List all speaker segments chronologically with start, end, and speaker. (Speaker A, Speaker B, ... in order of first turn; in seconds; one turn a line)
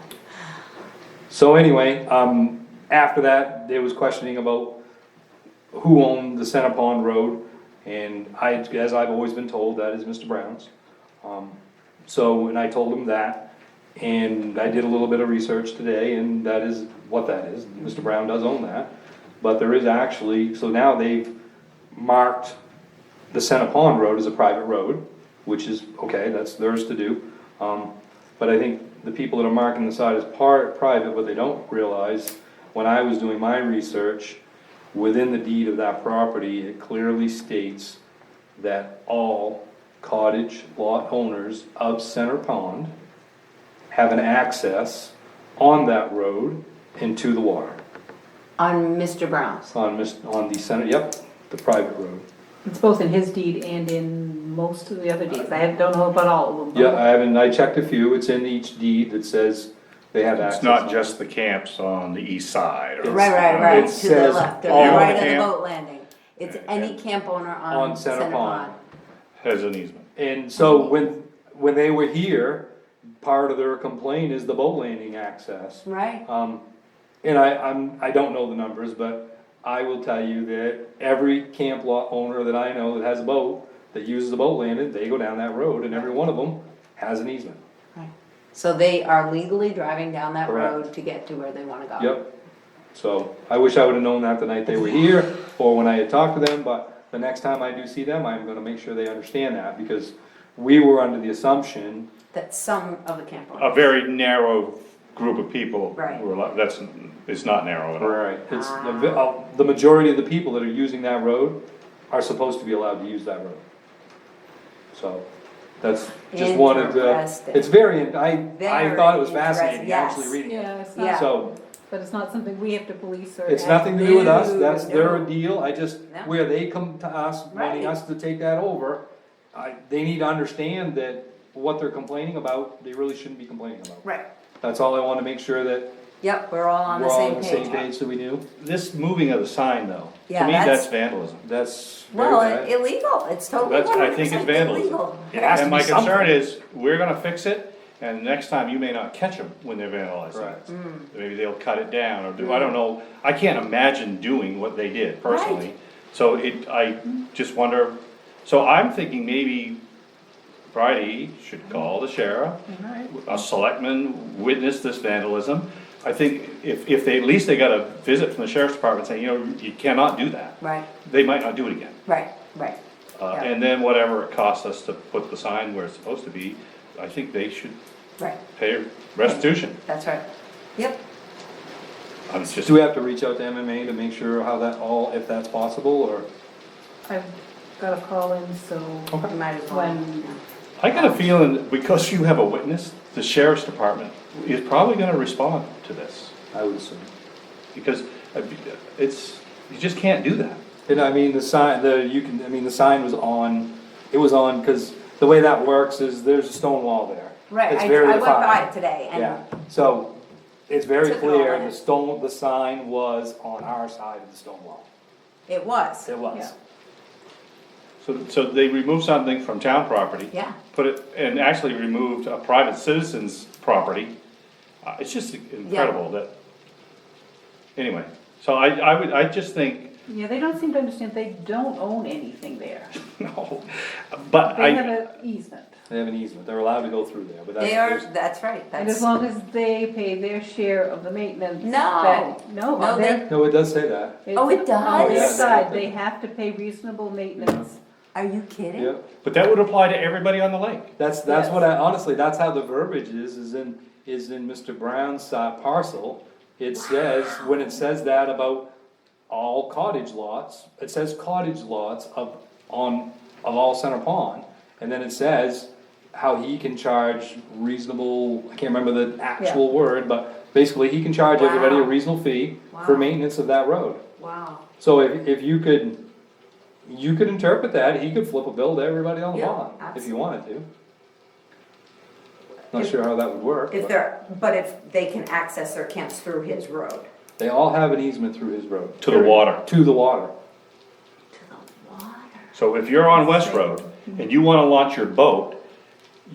Speaker A: 1.3-4.7
Speaker A: 5.7-10.7
Speaker A: 11.2-18.9
Speaker A: 19.4-21.3
Speaker A: 21.9-22.6
Speaker A: 23.3-34.4
Speaker A: 34.9-38.0
Speaker A: 38.5-42.9
Speaker A: 43.9-47.8
Speaker B: 48.6-49.7
Speaker A: 49.7-52.2
Speaker C: 52.6-57.1
Speaker A: 56.7-61.2
Speaker D: 60.4-64.0
Speaker A: 63.0-65.4
Speaker B: 63.0-68.8
Speaker D: 64.6-65.5
Speaker D: 66.5-66.9
Speaker A: 67.7-68.7
Speaker D: 69.4-70.1
Speaker A: 70.2-72.7
Speaker B: 70.6-70.9
Speaker A: 73.2-76.6
Speaker B: 75.8-76.2
Speaker A: 77.2-87.6
Speaker B: 87.9-92.2
Speaker A: 90.4-90.8
Speaker A: 92.0-92.3
Speaker A: 92.9-102.0
Speaker B: 102.3-103.9
Speaker D: 103.6-108.2
Speaker B: 106.0-106.2
Speaker A: 108.0-111.6
Speaker B: 108.5-109.3
Speaker A: 112.1-113.6
Speaker A: 114.9-115.2
Speaker A: 115.8-121.5
Speaker B: 116.3-117.7
Speaker B: 118.5-120.4
Speaker C: 120.4-124.3
Speaker B: 120.9-121.3
Speaker A: 123.5-134.0
Speaker B: 123.8-125.3
Speaker B: 127.5-127.9
Speaker A: 134.6-135.9
Speaker B: 136.2-137.8
Speaker A: 136.9-138.4
Speaker D: 138.6-141.4
Speaker B: 140.3-140.9
Speaker A: 141.4-142.7
Speaker B: 142.1-145.6
Speaker D: 143.6-159.8
Speaker A: 145.3-146.4
Speaker A: 150.3-150.6
Speaker B: 150.7-151.1
Speaker B: 152.4-152.7
Speaker B: 155.2-155.7
Speaker D: 160.7-172.0
Speaker C: 162.7-163.3
Speaker B: 170.6-170.8
Speaker B: 172.1-172.8
Speaker D: 173.2-177.8
Speaker D: 178.6-179.8
Speaker B: 179.8-180.2
Speaker B: 180.8-181.0
Speaker D: 182.3-182.8
Speaker A: 182.6-186.3
Speaker C: 187.1-190.3
Speaker B: 189.3-190.4
Speaker D: 190.8-196.3
Speaker B: 190.9-191.2
Speaker A: 196.5-197.1
Speaker D: 197.7-200.6
Speaker A: 200.8-210.1
Speaker B: 207.5-209.4
Speaker A: 210.7-214.8
Speaker B: 211.0-211.7
Speaker B: 215.5-216.1
Speaker A: 216.0-216.5
Speaker D: 218.0-224.1
Speaker D: 224.8-226.3
Speaker B: 225.6-225.9
Speaker D: 227.8-229.9
Speaker C: 230.1-232.9
Speaker D: 232.9-234.9
Speaker C: 234.4-235.7
Speaker A: 235.9-238.0
Speaker B: 237.6-239.1
Speaker C: 238.7-243.3
Speaker B: 241.6-243.2
Speaker A: 243.3-244.2
Speaker C: 244.2-247.8
Speaker B: 244.3-245.6
Speaker A: 244.9-245.9
Speaker A: 247.4-247.7
Speaker B: 248.1-248.9
Speaker A: 248.8-249.0
Speaker D: 249.2-250.9
Speaker A: 251.0-258.7
Speaker B: 251.2-251.7
Speaker B: 256.9-257.7
Speaker A: 259.3-274.0
Speaker B: 271.3-271.9
Speaker B: 272.7-273.1
Speaker B: 274.2-274.6
Speaker A: 274.8-276.0
Speaker A: 276.9-280.6
Speaker B: 279.3-280.1
Speaker A: 282.7-283.9
Speaker B: 283.7-287.1
Speaker A: 287.4-290.3
Speaker D: 289.0-289.6
Speaker B: 291.3-292.5
Speaker D: 292.5-295.6
Speaker C: 293.2-294.1